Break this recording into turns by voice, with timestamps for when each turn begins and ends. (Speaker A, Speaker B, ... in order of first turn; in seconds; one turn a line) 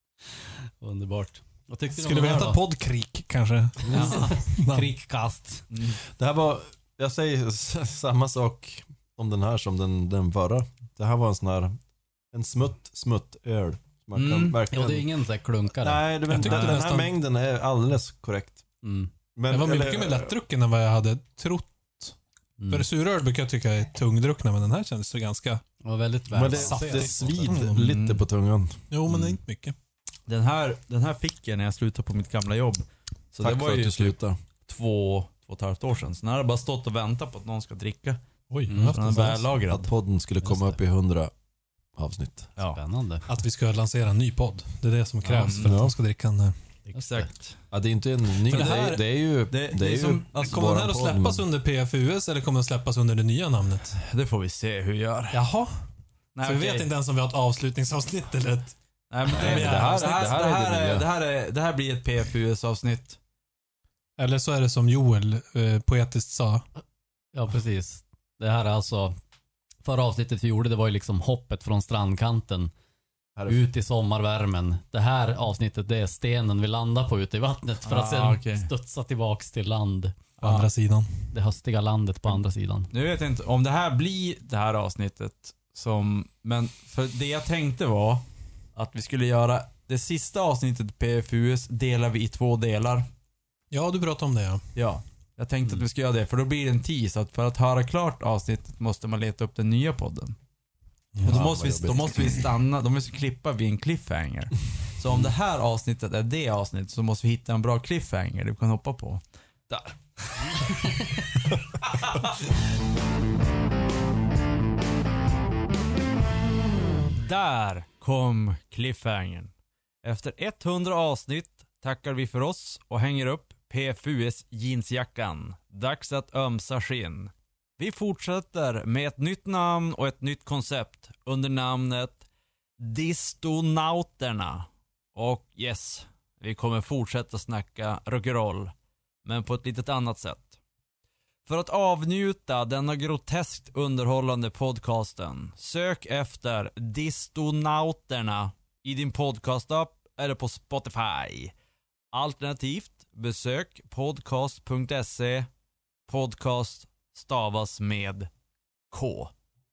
Speaker A: 0.8-2.6
Speaker B: 1.9-4.9
Speaker A: 3.9-5.7
Speaker C: 3.9-4.4
Speaker C: 5.7-6.0
Speaker D: 6.0-11.8
Speaker D: 12.3-15.1
Speaker C: 14.2-14.6
Speaker A: 14.7-16.1
Speaker D: 15.7-18.6
Speaker B: 16.3-17.1
Speaker A: 18.8-19.1
Speaker D: 19.4-20.3
Speaker B: 19.5-22.1
Speaker A: 22.6-22.9
Speaker B: 22.7-25.6
Speaker A: 25.8-27.5
Speaker D: 26.3-28.8
Speaker B: 26.5-28.0
Speaker C: 27.8-28.2
Speaker B: 28.9-29.7
Speaker C: 30.3-38.2
Speaker D: 33.4-34.4
Speaker B: 38.5-39.4
Speaker A: 38.7-39.0
Speaker C: 38.7-39.9
Speaker D: 39.6-41.3
Speaker A: 40.4-40.8
Speaker D: 42.0-42.5
Speaker A: 42.6-43.3
Speaker B: 43.3-46.5
Speaker D: 45.2-45.9
Speaker C: 45.3-45.8
Speaker A: 46.9-47.3
Speaker C: 47.0-47.6
Speaker D: 47.7-51.4
Speaker B: 48.5-49.0
Speaker C: 49.5-50.7
Speaker B: 50.5-54.0
Speaker C: 54.0-55.4
Speaker B: 55.3-55.7
Speaker C: 56.4-56.9
Speaker B: 56.4-58.8
Speaker C: 59.1-63.2
Speaker B: 59.3-60.1
Speaker D: 59.3-61.1
Speaker B: 64.2-66.6
Speaker A: 67.3-69.1
Speaker A: 69.8-72.7
Speaker D: 73.4-73.6
Speaker A: 73.5-80.6
Speaker C: 77.8-78.7
Speaker B: 80.4-81.1
Speaker A: 81.3-82.9
Speaker C: 82.9-88.2
Speaker C: 88.8-93.1
Speaker B: 93.7-94.6
Speaker C: 94.8-100.4
Speaker B: 101.1-101.4
Speaker D: 101.2-102.2
Speaker C: 101.2-112.5
Speaker A: 110.7-111.0
Speaker C: 117.1-119.5
Speaker C: 120.0-132.2
Speaker C: 132.8-138.7
Speaker C: 139.2-140.6
Speaker C: 141.5-151.5
Speaker C: 152.1-155.5
Speaker C: 156.1-158.3
Speaker C: 158.9-159.3